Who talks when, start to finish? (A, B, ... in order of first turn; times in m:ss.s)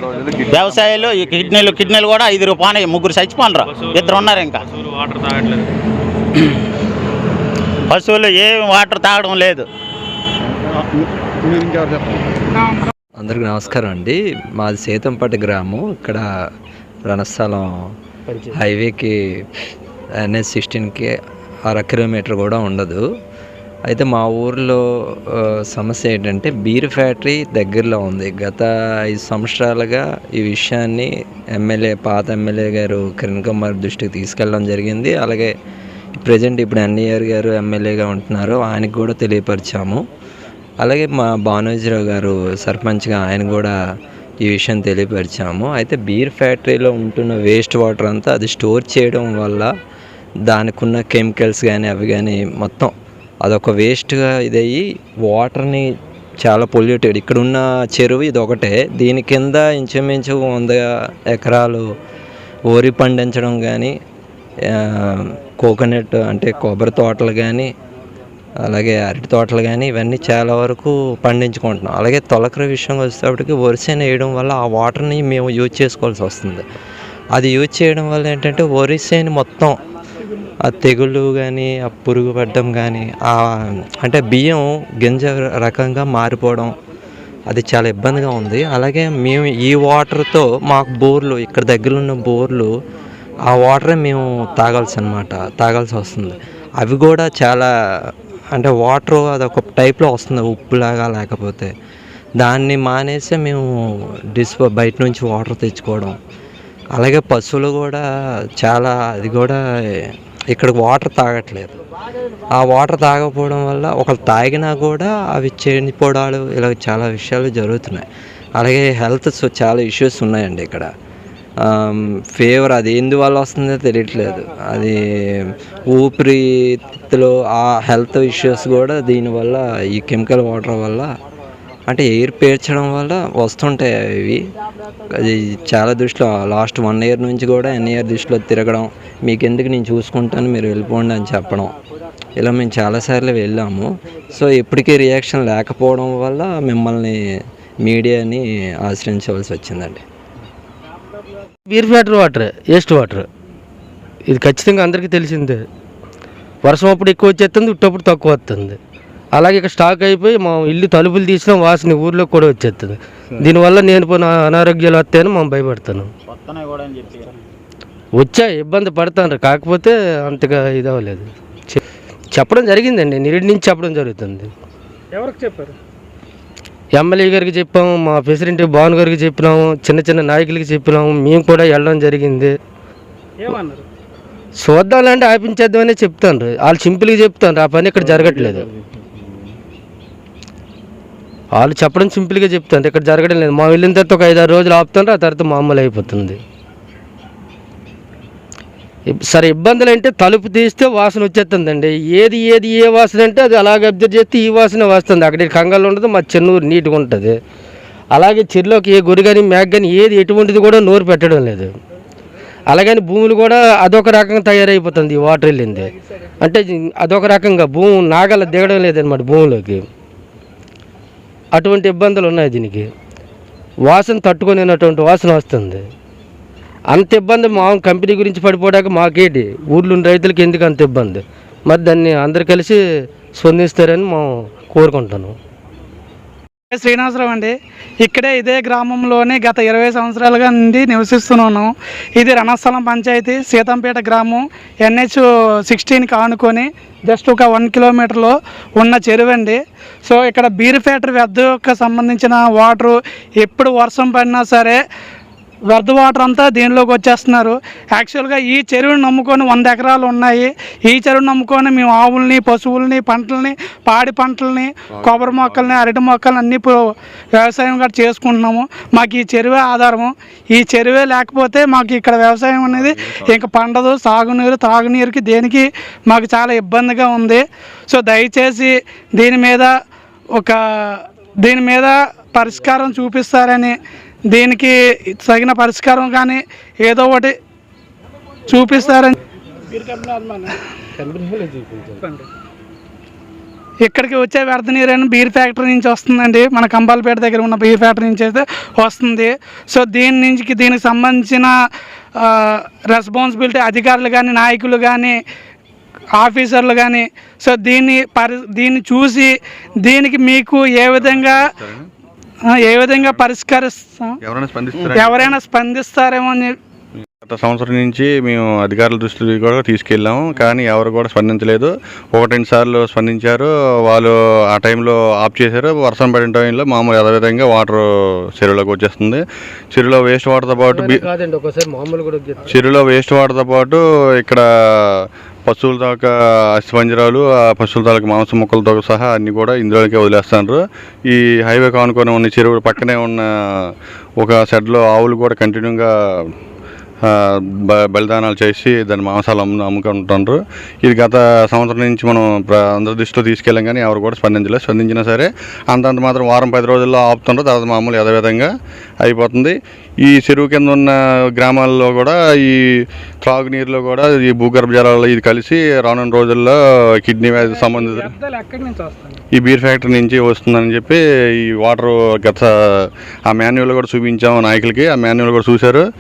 0:00.5-0:04.6 A
0:00.9-0:02.0 B
0:03.6-0:05.7 B
0:07.9-0:09.7 A
0:12.6-0:12.9 C
0:13.2-0:16.2 D
0:17.1-0:17.9 D
0:18.3-0:18.6 E
0:18.5-0:19.4 D
0:20.2-0:21.1 D
0:21.7-0:23.0 D
0:23.9-0:35.5 D
0:36.2-0:40.0 D
0:40.8-0:43.7 D
0:44.4-0:49.7 D
0:50.5-0:52.9 D
0:53.4-0:55.9 D
0:56.4-1:01.8 D
1:02.7-1:03.9 D
1:04.7-1:07.7 D
1:08.6-1:16.6 D
1:17.3-1:19.8 D
1:20.6-1:26.8 D
1:27.5-1:32.7 D
1:33.5-1:41.7 D
1:42.4-1:43.6 D
1:44.3-1:46.2 D
1:46.9-1:48.0 D
1:48.6-1:51.8 D
1:52.5-1:58.1 D
1:58.6-2:00.9 D
2:01.6-2:11.1 D
2:11.9-2:14.4 D
2:15.1-2:21.7 D
2:22.4-2:27.2 D
2:27.8-2:30.0 D
2:31.6-2:33.3 E
2:34.3-2:35.6 E
2:36.6-2:38.8 E
2:39.3-2:46.1 E
2:46.3-2:47.3 A
2:48.2-2:54.5 E
2:55.1-2:55.8 F
2:56.9-3:02.6 E
3:03.4-3:03.8 F
3:04.6-3:08.7 E
3:11.5-3:16.4 E
3:19.1-3:27.4 E
3:28.1-3:31.7 E
3:32.7-3:39.8 E
3:41.5-3:42.9 E
3:43.8-3:45.9 E
3:46.9-3:52.8 E
3:53.3-3:55.4 E
3:56.7-4:14.8 C
4:15.7-4:39.7 C
4:24.9-4:25.9 G
4:32.7-4:33.2 G
4:40.4-4:43.8 C
4:44.3-4:47.3 C
4:48.5-4:49.1 C
4:51.0-4:52.0 E
4:53.8-5:01.5 C
5:02.2-5:05.2 C
5:06.2-5:11.5 C
5:11.0-5:11.9 G
5:12.5-5:14.2 C
5:14.2-5:15.4 G
5:14.9-5:16.6 C
5:17.2-5:27.8 G
5:28.4-5:31.0 G
5:30.6-5:32.6 E
5:32.5-5:43.2 G
5:44.2-5:45.9 G
5:47.1-5:58.5 G
5:59.0-6:08.1 G
6:07.3-6:09.2 F
6:09.3-6:15.8 G